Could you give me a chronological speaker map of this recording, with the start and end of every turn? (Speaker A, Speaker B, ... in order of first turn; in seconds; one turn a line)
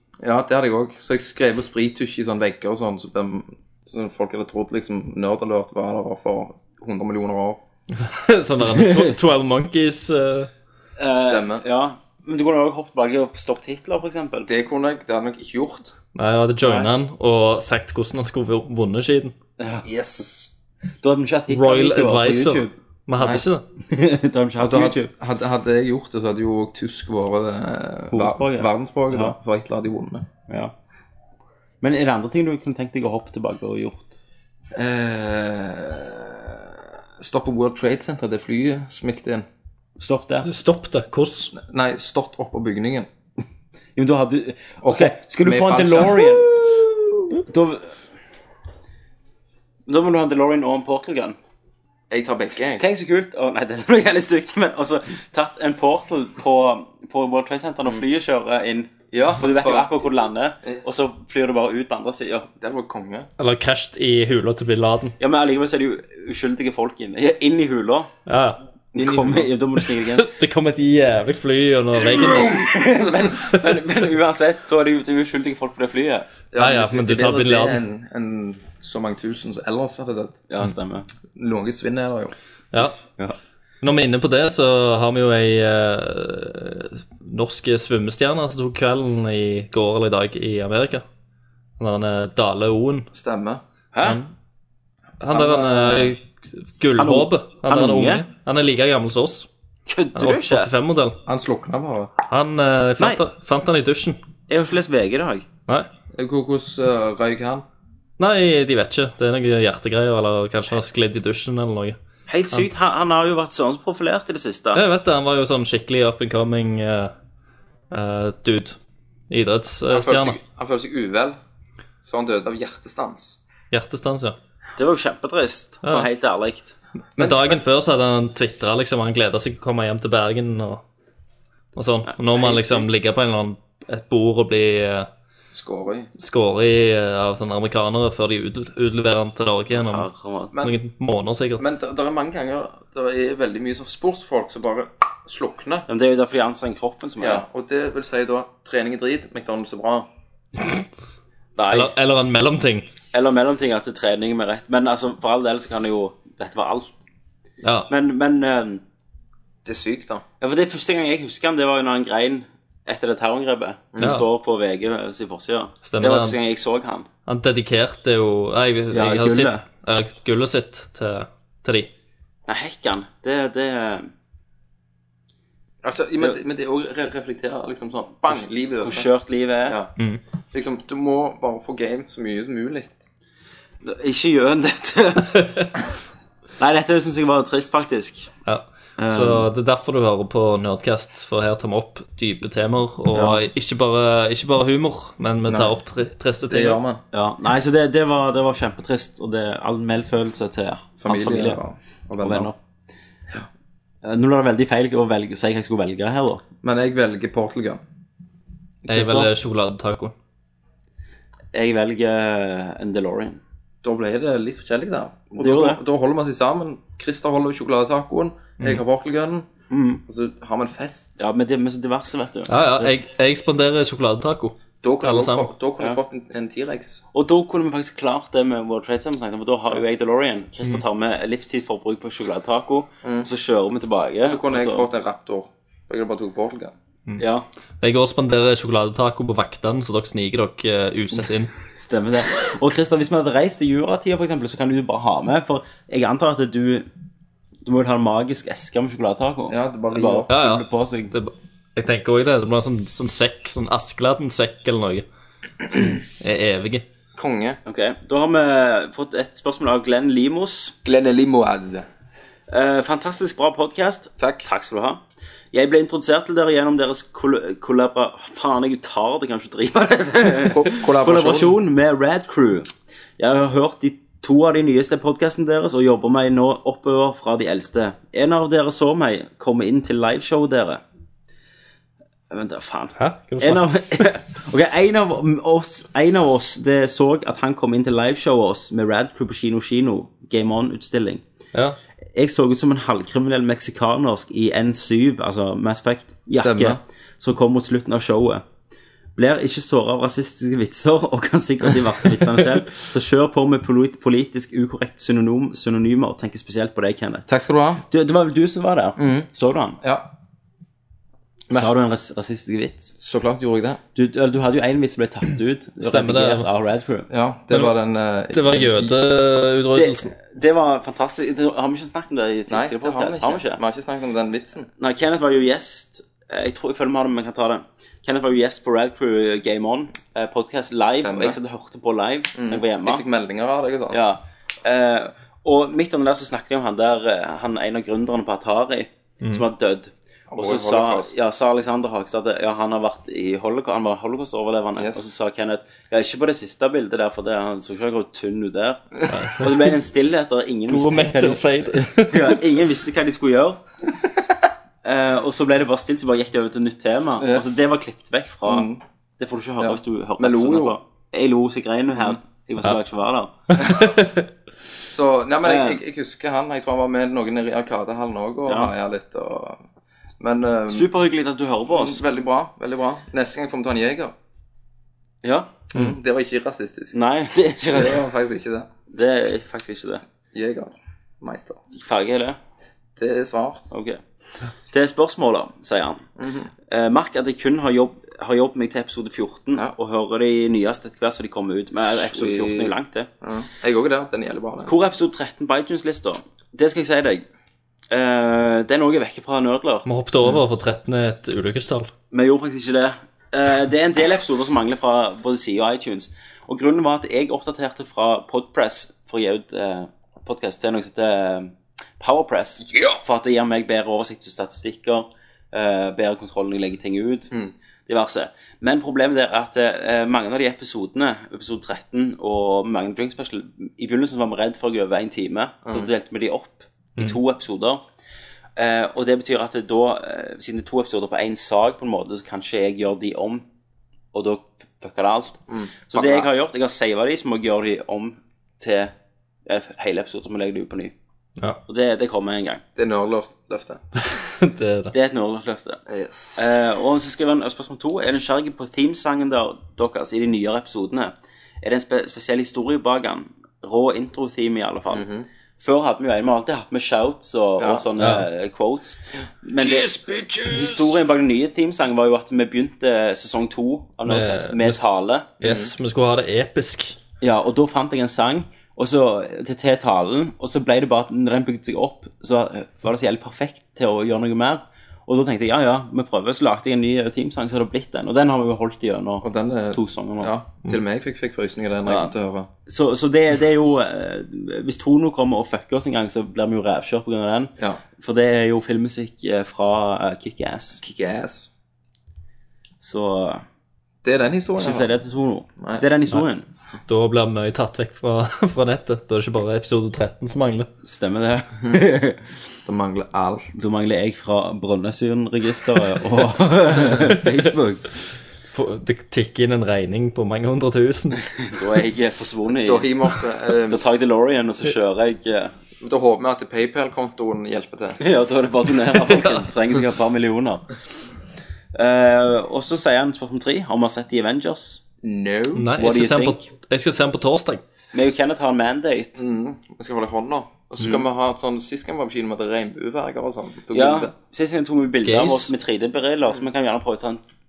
Speaker A: 0.2-7.6
Speaker B: 7.9-10.5
Speaker C: 8.6-9.1
Speaker C: 11.0-14.5
Speaker A: 11.1-11.6
Speaker A: 14.5-15.9
Speaker B: 16.1-19.4
Speaker C: 19.6-19.9
Speaker A: 19.8-20.5
Speaker C: 21.0-22.7
Speaker B: 21.5-23.6
Speaker A: 23.2-23.4
Speaker C: 23.9-25.1
Speaker A: 24.6-30.3
Speaker C: 28.1-29.3
Speaker C: 30.5-30.7
Speaker C: 31.8-34.1
Speaker A: 34.7-39.5
Speaker C: 40.0-40.5
Speaker B: 40.4-41.5
Speaker A: 41.5-43.1
Speaker C: 44.0-46.5
Speaker A: 44.8-46.9
Speaker C: 47.4-47.9
Speaker C: 49.9-51.4
Speaker A: 52.1-52.8
Speaker C: 52.8-62.5
Speaker A: 59.1-60.0
Speaker A: 62.6-63.3
Speaker B: 63.4-65.1
Speaker C: 65.2-68.1
Speaker B: 68.3-68.6
Speaker C: 68.9-70.3
Speaker A: 69.0-69.5
Speaker B: 70.2-72.5
Speaker A: 72.1-73.2
Speaker C: 72.2-76.3
Speaker A: 76.5-80.4
Speaker B: 76.6-77.8
Speaker C: 80.5-81.1
Speaker A: 81.3-82.3
Speaker B: 83.8-91.0
Speaker B: 91.8-93.1
Speaker A: 93.1-94.2
Speaker C: 93.9-94.2
Speaker B: 95.2-99.5
Speaker A: 95.3-96.2
Speaker C: 97.0-98.2
Speaker C: 99.9-100.7
Speaker B: 100.2-101.2
Speaker A: 101.2-102.1
Speaker B: 102.3-104.2
Speaker C: 104.5-105.5
Speaker A: 106.1-107.6
Speaker B: 108.2-112.0
Speaker C: 112.3-114.8
Speaker B: 114.7-117.1
Speaker B: 117.9-118.8
Speaker B: 119.3-120.4
Speaker A: 119.9-121.4
Speaker A: 122.0-123.4
Speaker B: 123.7-124.3
Speaker C: 124.8-126.7
Speaker A: 127.2-127.6
Speaker B: 127.2-130.8
Speaker B: 131.8-135.1
Speaker A: 132.4-132.8
Speaker A: 135.5-136.1
Speaker B: 136.2-140.1
Speaker C: 139.7-140.5
Speaker B: 140.6-141.6
Speaker A: 141.6-145.8
Speaker C: 145.9-147.4
Speaker A: 147.2-150.1
Speaker C: 151.6-151.9
Speaker B: 151.7-152.9
Speaker C: 153.1-157.0
Speaker B: 157.6-157.9
Speaker C: 157.9-158.8
Speaker A: 159.6-160.2
Speaker C: 160.4-167.1
Speaker B: 165.8-166.3
Speaker B: 167.3-171.9
Speaker C: 168.9-169.6
Speaker C: 172.5-174.1
Speaker A: 175.8-179.1
Speaker C: 178.3-179.8
Speaker A: 179.6-179.9
Speaker A: 180.5-183.0
Speaker C: 183.8-185.5
Speaker B: 185.3-185.7
Speaker C: 186.6-188.3
Speaker B: 188.4-196.8
Speaker C: 189.0-189.5
Speaker C: 193.1-193.4
Speaker A: 195.5-195.7
Speaker A: 196.5-197.0
Speaker C: 197.1-201.6
Speaker A: 201.0-202.5
Speaker C: 202.2-202.6
Speaker C: 204.0-206.4
Speaker A: 206.6-207.8
Speaker C: 208.8-209.3
Speaker B: 208.9-210.1
Speaker C: 211.5-213.4
Speaker A: 213.8-219.5
Speaker C: 215.4-215.8
Speaker C: 219.7-220.0
Speaker A: 220.1-221.2
Speaker C: 221.2-222.9
Speaker B: 222.5-225.5
Speaker A: 224.8-227.0
Speaker C: 227.1-234.9
Speaker A: 233.0-233.3
Speaker A: 234.2-236.7
Speaker C: 237.2-237.4
Speaker B: 237.8-241.5
Speaker C: 241.7-246.9
Speaker C: 247.6-251.1
Speaker A: 249.5-250.3
Speaker B: 250.3-255.1
Speaker B: 255.7-256.8
Speaker A: 257.1-257.6
Speaker C: 257.6-260.8
Speaker A: 260.8-261.9
Speaker C: 262.5-265.0
Speaker A: 264.2-264.4
Speaker C: 265.5-272.7
Speaker A: 270.4-271.6
Speaker C: 273.2-280.8
Speaker C: 282.3-291.2
Speaker B: 283.0-283.6
Speaker C: 292.1-298.4
Speaker A: 296.3-296.8
Speaker C: 299.1-307.3
Speaker A: 307.3-307.8
Speaker C: 307.9-309.8
Speaker A: 309.0-309.3
Speaker A: 309.8-310.1
Speaker C: 311.5-312.9
Speaker A: 313.0-313.8
Speaker C: 313.9-317.1
Speaker B: 315.8-316.4
Speaker A: 317.1-318.9
Speaker B: 318.3-320.1
Speaker C: 319.7-323.6
Speaker A: 322.5-324.7
Speaker C: 324.8-333.0
Speaker A: 330.9-331.4
Speaker A: 332.4-334.0
Speaker C: 333.9-353.6
Speaker A: 340.3-341.1
Speaker A: 344.8-345.0
Speaker B: 349.1-349.5
Speaker B: 350.7-352.4
Speaker C: 354.8-358.7
Speaker A: 357.2-357.6
Speaker A: 358.4-358.8
Speaker C: 359.2-363.6
Speaker A: 359.6-360.8
Speaker B: 363.5-364.2
Speaker A: 364.8-369.6
Speaker C: 365.4-365.8
Speaker C: 368.5-368.7
Speaker A: 370.2-370.9
Speaker C: 370.7-372.0
Speaker A: 371.7-374.1
Speaker C: 375.2-375.8
Speaker A: 375.7-376.9
Speaker C: 376.9-378.0
Speaker A: 377.7-378.7
Speaker C: 378.9-380.0
Speaker A: 380.3-381.6
Speaker C: 381.7-382.4
Speaker A: 383.0-383.7
Speaker C: 383.7-384.0
Speaker C: 384.7-386.0
Speaker A: 386.2-386.5
Speaker C: 386.7-393.1
Speaker A: 391.9-394.8
Speaker C: 394.6-397.2
Speaker C: 397.9-399.9
Speaker B: 399.8-401.9
Speaker C: 402.1-417.3
Speaker A: 412.7-413.0
Speaker C: 417.9-427.8
Speaker C: 428.6-433.4
Speaker C: 434.1-438.9
Speaker A: 435.5-436.3
Speaker C: 439.4-440.9
Speaker C: 441.7-442.6
Speaker A: 442.8-443.8
Speaker B: 444.1-444.9
Speaker C: 444.9-445.8
Speaker A: 445.9-446.5
Speaker C: 446.4-455.1
Speaker A: 454.9-455.3
Speaker C: 455.6-465.3
Speaker A: 457.6-457.9
Speaker B: 458.0-458.2
Speaker A: 459.6-460.9
Speaker B: 464.1-464.8
Speaker B: 465.4-467.0
Speaker A: 465.4-465.7
Speaker C: 467.2-480.3
Speaker A: 479.2-482.5
Speaker C: 481.9-482.1
Speaker C: 482.7-490.8
Speaker A: 490.8-491.5
Speaker C: 492.8-493.4
Speaker A: 494.0-494.9
Speaker C: 494.6-496.4
Speaker A: 495.6-495.8
Speaker B: 496.9-500.7
Speaker C: 500.8-502.3
Speaker A: 502.6-503.5
Speaker C: 503.5-507.9
Speaker B: 508.5-511.2
Speaker C: 511.3-513.0
Speaker A: 512.6-513.8
Speaker C: 513.7-515.5
Speaker A: 515.8-518.0
Speaker C: 518.0-520.8
Speaker C: 521.7-524.8
Speaker A: 525.0-525.7
Speaker B: 525.5-527.6
Speaker C: 525.8-526.4
Speaker C: 527.9-529.2
Speaker A: 529.2-534.1
Speaker C: 533.7-537.2
Speaker B: 535.0-535.5